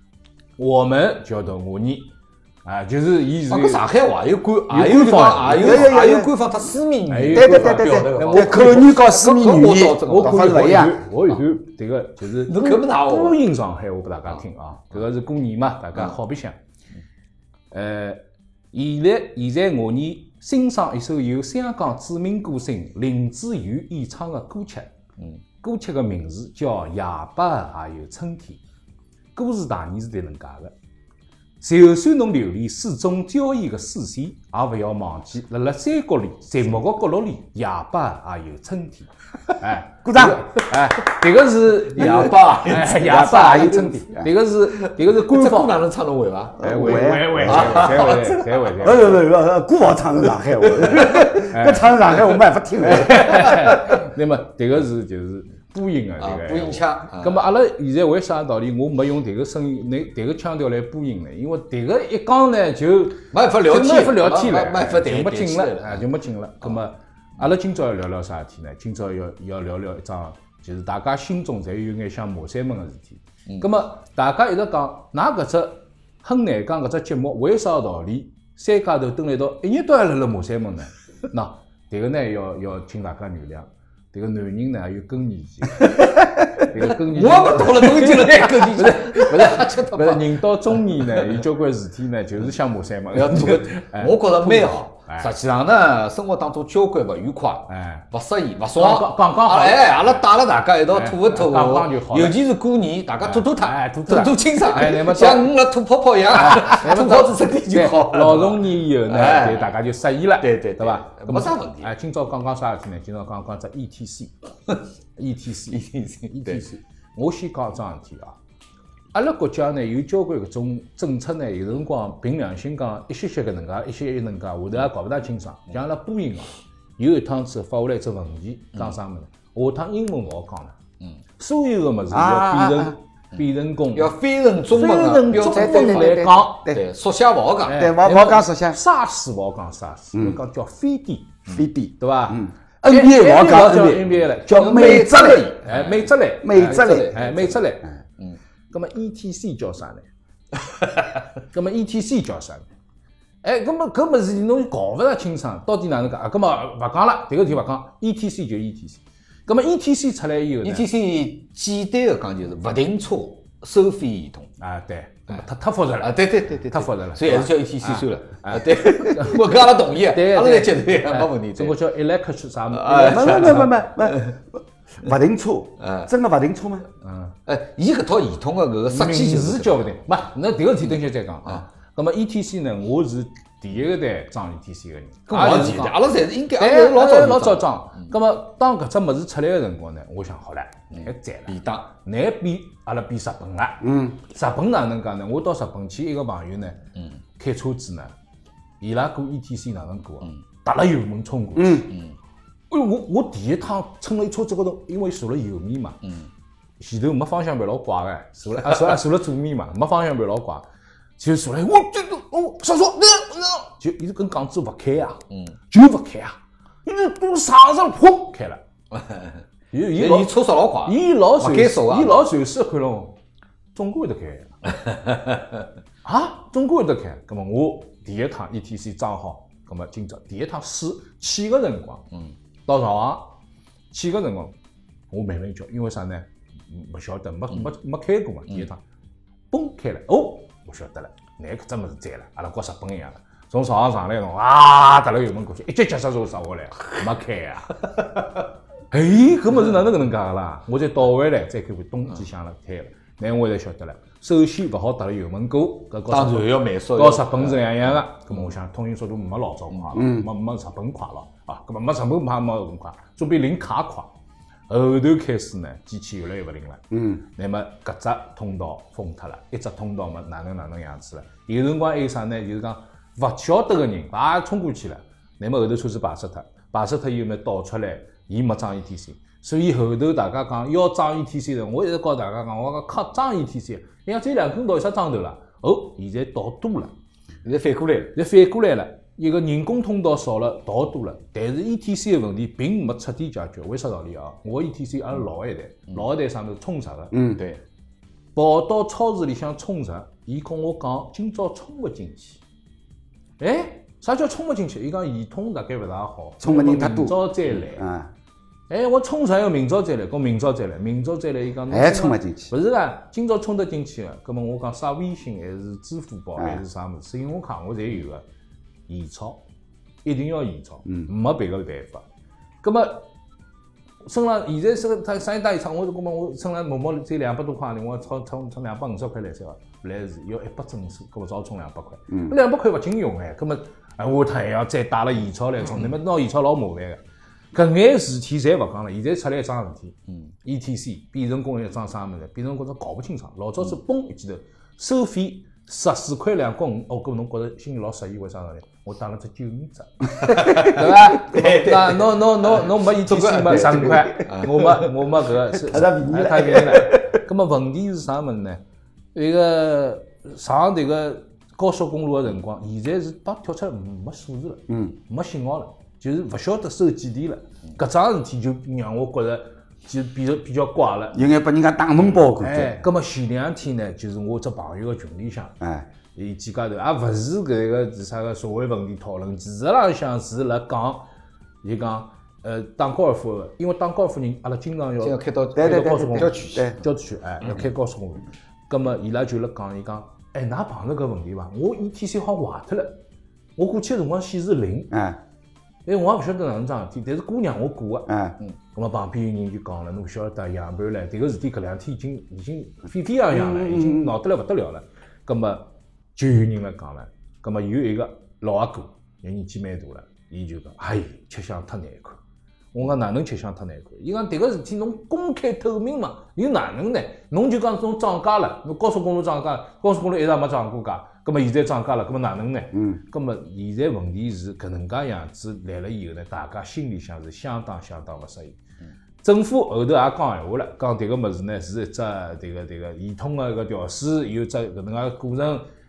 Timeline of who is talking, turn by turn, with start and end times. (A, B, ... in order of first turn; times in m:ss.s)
0:00.6-0:02.1 A
0:02.6-0:03.8 A
0:03.5-0:10.8 B
0:04.7-0:05.9 A
0:05.5-0:06.3 C
0:07.1-0:09.0 A
0:07.3-0:11.0 C
0:10.0-0:16.6 A
0:12.4-0:13.4 B
0:17.7-0:18.2 A
0:18.7-0:24.9 A
0:25.6-0:28.6 A
0:29.4-0:30.7 A
0:31.6-0:45.9 A
0:40.0-0:40.4 C
0:42.0-0:42.8 B
0:42.0-0:44.3 C
0:44.8-0:48.6 B
0:46.6-0:48.1 C
0:46.6-0:49.2 A
0:48.8-0:53.9 C
0:50.7-0:51.3 B
0:51.1-0:52.2 A
0:52.8-1:35.3 A
0:56.2-0:57.5 B
1:03.3-1:06.0 B
1:25.8-1:31.4 B
1:33.1-1:49.7 B
1:37.7-1:38.0 A
1:38.8-1:40.2 A
1:40.9-1:42.4 A
1:43.2-1:45.5 A
1:46.3-1:54.3 A
1:50.4-1:51.9 B
1:55.2-1:58.4 A
1:55.7-1:56.6 B
1:59.1-2:10.7 A
2:11.4-2:14.2 A
2:12.1-2:13.0 C
2:13.9-2:17.9 B
2:14.7-2:16.7 A
2:15.3-2:16.8 C
2:17.6-2:27.8 A
2:17.7-2:18.8 C
2:21.5-2:25.5 C
2:24.5-2:27.6 B
2:26.4-2:27.2 C
2:28.7-2:30.0 A
2:31.5-2:32.6 A
2:33.4-2:40.9 A
2:40.6-2:44.5 B
2:44.6-2:53.7 A
2:46.0-2:51.8 B
2:52.7-2:54.3 B
2:53.1-2:56.8 C
2:55.8-2:56.1 B
2:57.0-2:57.3 A
2:57.4-2:59.9 B
2:58.9-3:06.0 A
3:05.3-3:08.1 B
3:06.6-3:16.8 A
3:10.9-3:11.8 B
3:13.8-3:14.2 C
3:17.4-3:18.1 A
3:18.8-3:21.9 A
3:21.6-3:21.8 C
3:21.9-3:22.2 B
3:22.7-3:26.0 A
3:26.8-3:30.6 A
3:31.2-3:38.6 A
3:38.9-3:39.4 B
3:39.7-3:40.3 A
3:40.0-3:42.3 B
3:40.8-3:43.2 A
3:43.7-3:44.7 A
3:46.0-3:52.0 A
3:52.7-3:53.3 A
3:53.9-3:54.5 A
3:55.1-3:58.8 A
3:59.5-4:08.2 A
4:08.9-4:24.1 A
4:16.1-4:18.5 B
4:19.9-4:20.3 C
4:24.7-4:46.9 A
4:26.9-4:27.2 C
4:47.4-4:48.2 B
4:48.1-4:57.4 A
4:57.1-4:57.4 C
4:58.4-5:02.4 A
5:03.4-5:07.8 A
5:06.4-5:07.2 C
5:07.7-5:08.1 C
5:08.7-5:18.2 A
5:11.7-5:12.5 C
5:18.9-5:19.4 A
5:20.0-5:22.0 A
5:22.6-5:23.1 A
5:24.0-5:37.0 A
5:37.5-5:58.6 A
5:50.2-5:54.9 B
5:53.8-5:54.2 C
5:55.6-5:57.0 C
5:59.1-6:11.3 A
6:11.1-6:12.8 C
6:12.4-6:15.5 A
6:15.6-6:15.9 C
6:16.1-6:21.0 A
6:21.6-6:33.0 A
6:25.0-6:26.8 B
6:25.6-6:26.8 C
6:33.6-6:34.9 A
6:34.9-6:35.2 C
6:35.8-6:38.1 A
6:38.1-6:38.4 C
6:38.7-6:52.2 A
6:43.3-6:44.1 C
6:52.7-7:08.6 A
7:09.2-7:15.6 A